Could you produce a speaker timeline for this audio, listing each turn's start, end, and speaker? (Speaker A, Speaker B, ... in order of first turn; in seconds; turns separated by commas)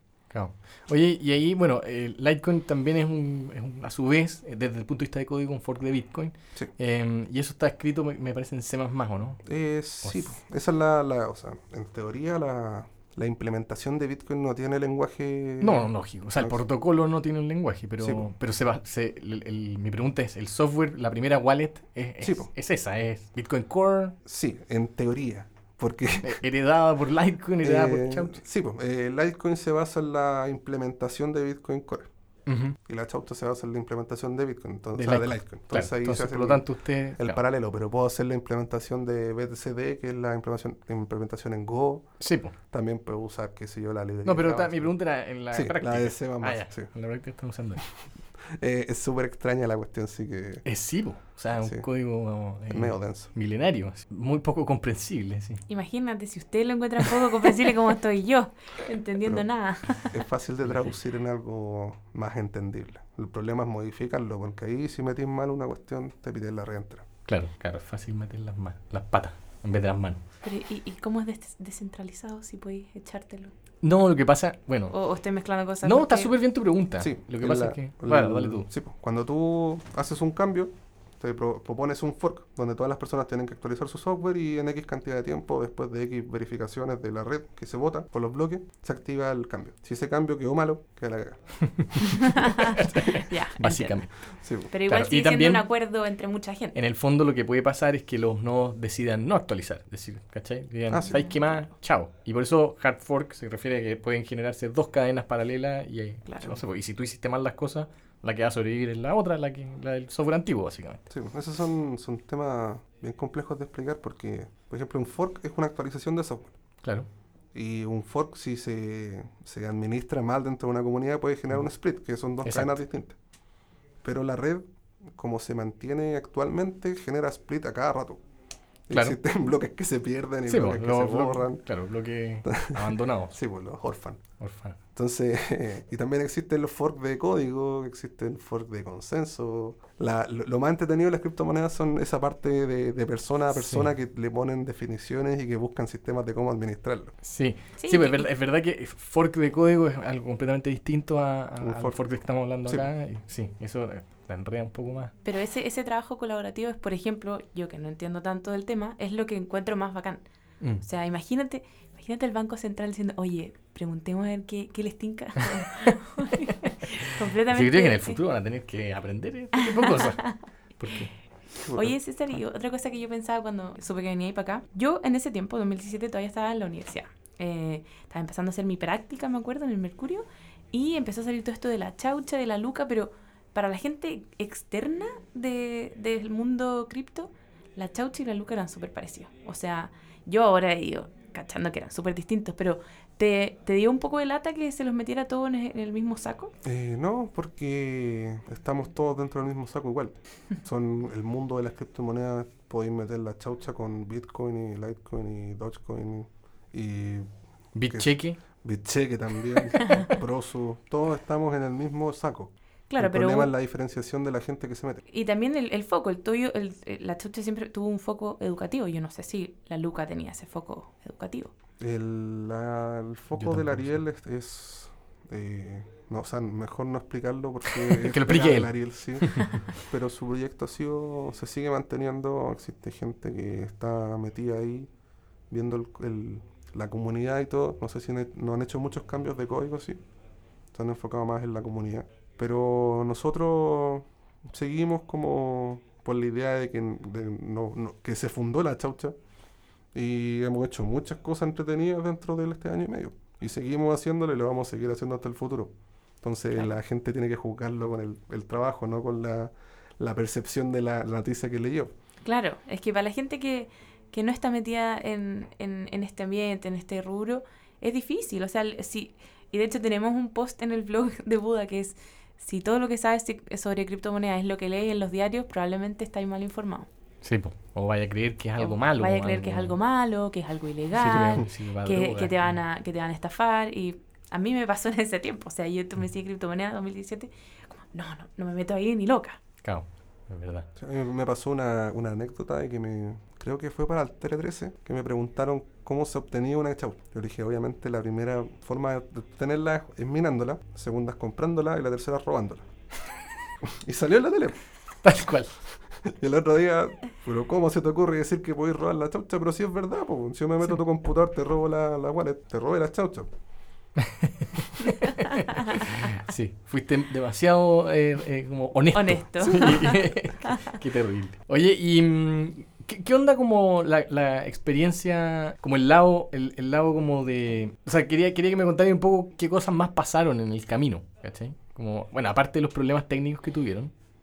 Speaker A: 0.3-9.4, Speaker B: 9.4-16.6, Speaker A: 10.0-10.3, Speaker A: 15.6-24.2, Speaker B: 18.0-18.3, Speaker B: 22.2-22.5, Speaker B: 24.2-26.4, Speaker A: 26.2-28.4, Speaker B: 27.6-32.1, Speaker A: 32.5-32.8, Speaker B: 32.8-42.1, Speaker A: 35.0-37.4, Speaker A: 42.2-42.5, Speaker B: 42.7-45.0, Speaker A: 44.2-47.8, Speaker B: 45.5-46.9, Speaker B: 48.5-50.6, Speaker A: 50.6-55.6, Speaker B: 51.6-51.9, Speaker B: 52.7-53.3, Speaker C: 55.7-60.2, Speaker B: 60.0-67.1, Speaker A: 60.7-60.9, Speaker A: 67.3-70.2, Speaker C: 70.4-73.5, Speaker A: 73.8-75.0, Speaker C: 74.9-76.3, Speaker A: 75.8-78.7, Speaker B: 77.0-92.0, Speaker A: 91.6-94.1, Speaker C: 92.1-94.0, Speaker B: 94.4-94.7, Speaker C: 94.7-96.8, Speaker A: 94.9-95.7, Speaker A: 96.7-111.1, Speaker B: 100.9-101.2, Speaker C: 101.0-101.4, Speaker C: 106.3-106.5, Speaker B: 111.1-116.6, Speaker B: 117.5-123.2, Speaker A: 122.4-122.8, Speaker B: 124.0-128.2, Speaker B: 128.9-131.6, Speaker A: 128.9-129.2, Speaker A: 130.5-133.4, Speaker B: 132.4-134.2, Speaker A: 134.4-134.8, Speaker B: 134.9-147.1, Speaker A: 143.5-143.9, Speaker A: 147.2-155.1, Speaker C: 147.8-148.3, Speaker B: 151.6-152.0, Speaker C: 155.2-160.2, Speaker C: 160.8-168.2, Speaker A: 166.9-170.2, Speaker C: 169.6-170.4, Speaker A: 170.8-171.1, Speaker B: 171.6-172.0, Speaker C: 171.7-196.5, Speaker B: 196.6-207.3, Speaker A: 207.8-208.4, Speaker B: 207.9-215.0, Speaker C: 209.8-210.1, Speaker C: 212.9-213.5, Speaker C: 215.1-221.5, Speaker B: 221.8-234.9, Speaker A: 223.4-224.0, Speaker A: 227.8-229.7, Speaker B: 235.5-240.0, Speaker B: 240.7-249.2, Speaker B: 249.9-261.9, Speaker C: 262.2-276.9, Speaker A: 277.2-279.8, Speaker C: 278.6-289.4, Speaker A: 280.9-282.6, Speaker B: 281.2-281.4, Speaker A: 289.6-290.7, Speaker B: 290.8-302.7, Speaker B: 303.6-304.6, Speaker A: 305.0-305.5, Speaker B: 306.0-313.3, Speaker A: 314.0-333.9, Speaker C: 318.9-320.8